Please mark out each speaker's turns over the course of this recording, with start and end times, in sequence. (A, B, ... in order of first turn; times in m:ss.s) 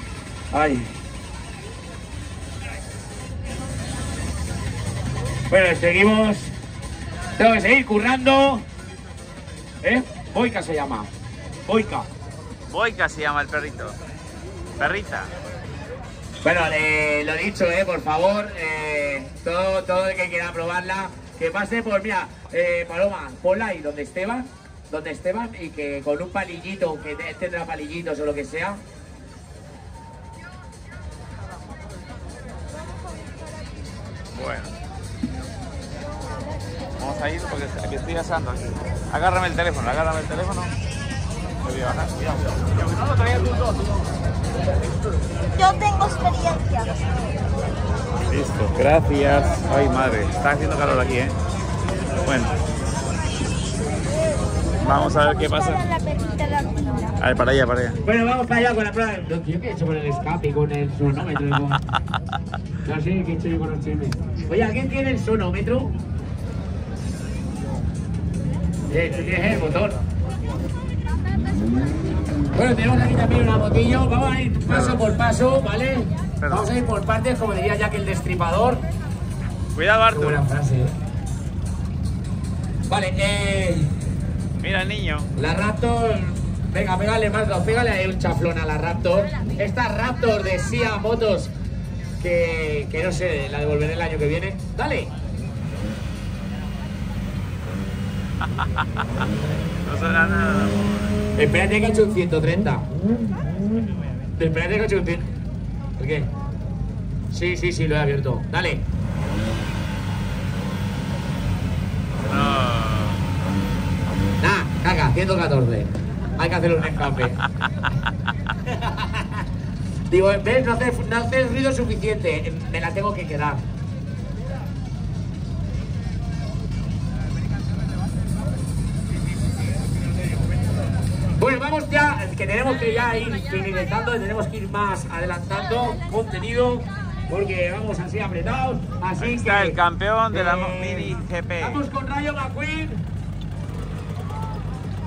0:00.5-0:00.9 A
0:05.5-0:06.5 A
0:07.4-0:08.7 A
0:09.8-0:11.1 A
0:11.7-0:12.1 A
0:12.7-0:14.0 B
0:14.8-0:15.3 B
0:16.4-0:28.8 A
0:34.3-0:34.7 B
0:37.0-0:40.7 B
0:41.6-0:43.5 B
0:45.6-0:46.9 C
0:48.3-0:51.4 B
0:52.2-0:52.5 B
0:54.8-0:55.8 B
0:55.2-0:57.2 C
0:57.2-0:58.0 B
0:58.0-1:01.8 A
1:02.8-1:06.0 A
1:08.9-1:10.0 A
1:12.5-1:18.8 A
1:14.7-1:15.0 B
1:16.4-1:16.7 B
1:19.7-1:20.4 B
1:20.1-1:20.9 A
1:22.9-1:23.9 A
1:24.6-1:25.3 B
1:25.4-1:31.5 A
1:32.2-1:35.1 A
1:38.6-1:39.1 B
1:39.8-1:41.2 B
1:41.4-1:42.9 A
1:44.4-1:45.3 A
1:46.0-1:46.3 A
1:47.3-1:48.8 A
1:52.3-1:53.2 B
1:54.4-1:57.4 A
1:58.7-1:59.5 A
2:00.1-2:03.6 A
2:11.4-2:19.8 A
2:19.2-2:21.8 B
2:20.3-2:23.0 A